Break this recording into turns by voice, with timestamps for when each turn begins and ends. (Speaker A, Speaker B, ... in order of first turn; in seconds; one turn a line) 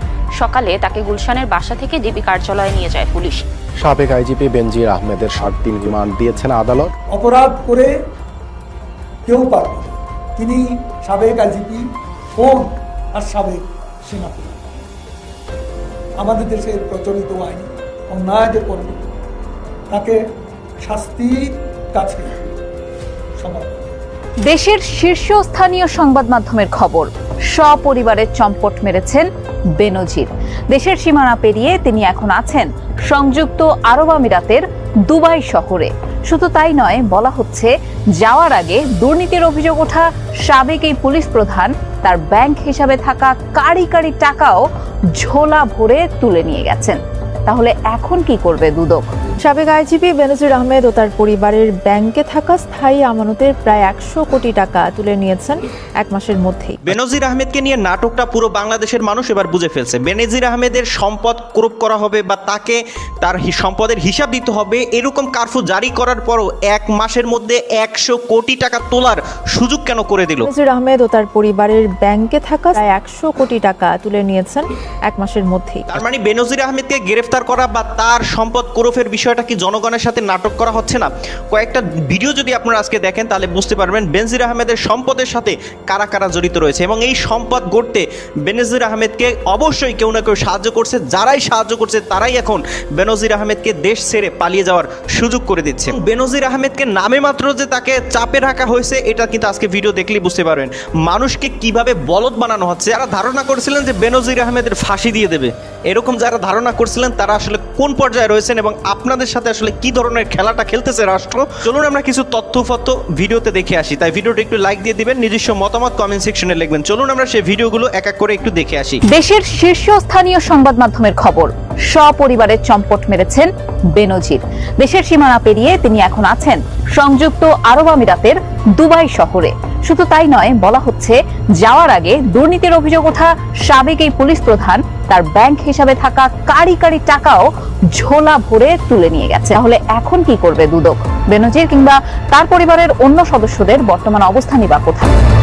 Speaker A: 0.4-3.4
Speaker B: 3.8-6.9
Speaker C: 7.1-7.9
Speaker C: 9.3-14.6
Speaker C: 16.2-19.0
Speaker C: 19.9-20.2
Speaker C: 20.8-22.3
Speaker C: 23.4-23.8
Speaker D: 24.4-29.2
Speaker D: 29.8-49.1
Speaker E: 49.4-57.0
Speaker F: 56.9-70.5
Speaker E: 70.4-76.0
Speaker F: 75.9-119.0
Speaker D: 119.1-145.1